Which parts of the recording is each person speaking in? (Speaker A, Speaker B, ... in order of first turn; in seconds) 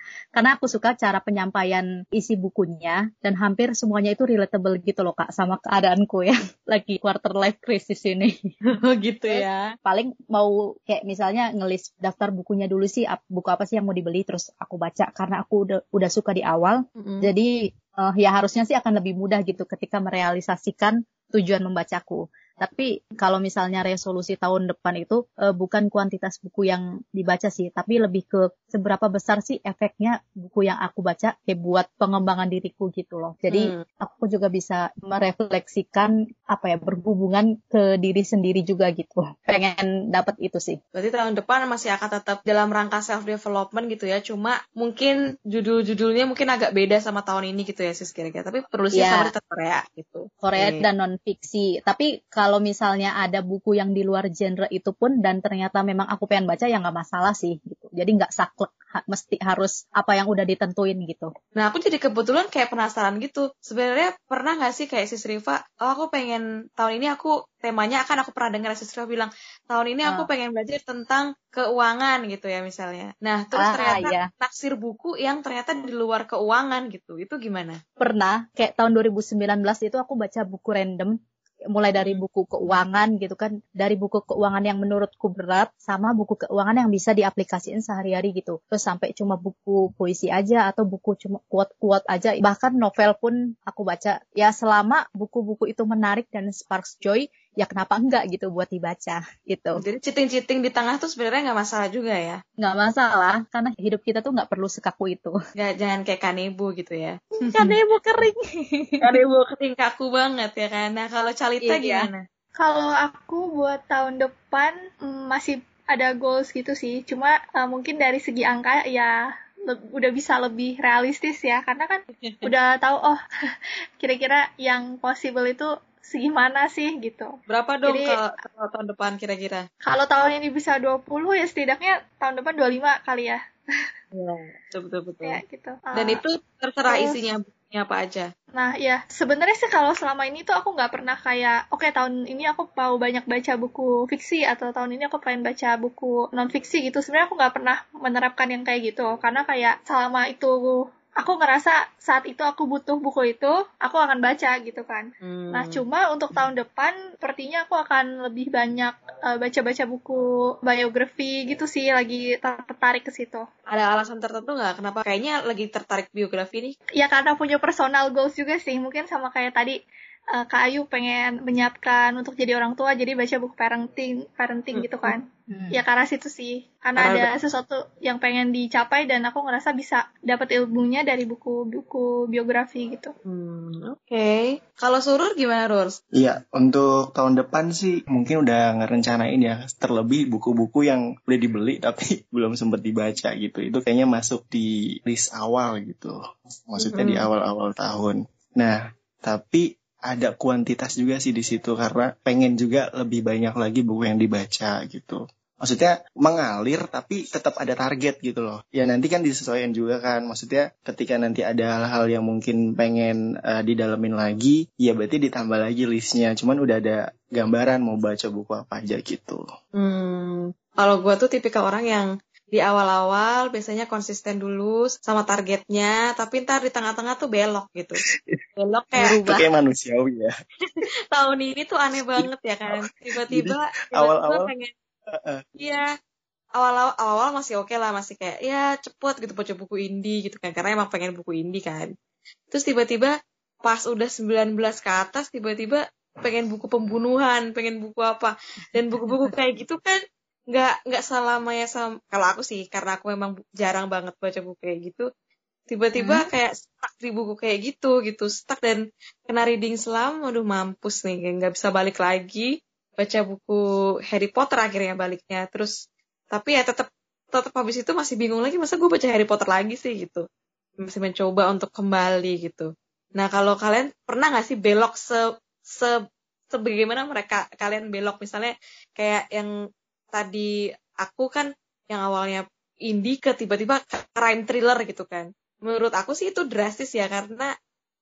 Speaker A: 0.3-8.4, 9.3-40.8, 48.9-49.3, 50.4-61.3, 73.5-74.3, 78.0-81.2, 81.7-99.8, 102.6-105.3, 107.5-109.0, 111.6-112.1, 175.5-175.8, 228.9-229.5, 249.0-249.3, 256.0-256.2
Speaker B: 8.7-9.7, 17.0-17.3, 33.5-33.8, 40.9-50.8, 61.5-77.8, 99.8-102.4, 105.5-107.8, 109.0-112.2, 122.1-122.5, 127.5-129.7, 134.1-135.4, 135.9-138.3, 155.2-155.8, 163.7-166.8, 174.7-175.1, 177.0-177.3, 183.2-186.0, 196.8-197.2, 219.8-228.0, 228.6-229.2, 230.6-234.7, 235.6-235.9, 236.6-241.9, 242.5-250.0, 250.5-255.1, 255.7-265.7, 266.3-270.2, 270.8-275.9, 276.5-279.5, 280.1-287.5
Speaker C: 112.6-119.1, 119.7-123.2, 124.0-127.3, 127.8-128.3, 129.8-133.4, 135.2-136.2, 136.9-137.2, 138.5-163.5, 167.0-169.8, 170.3-183.1
Speaker D: 186.1-196.2, 196.7-219.4, 229.2-230.3, 232.2-234.5, 235.1-235.4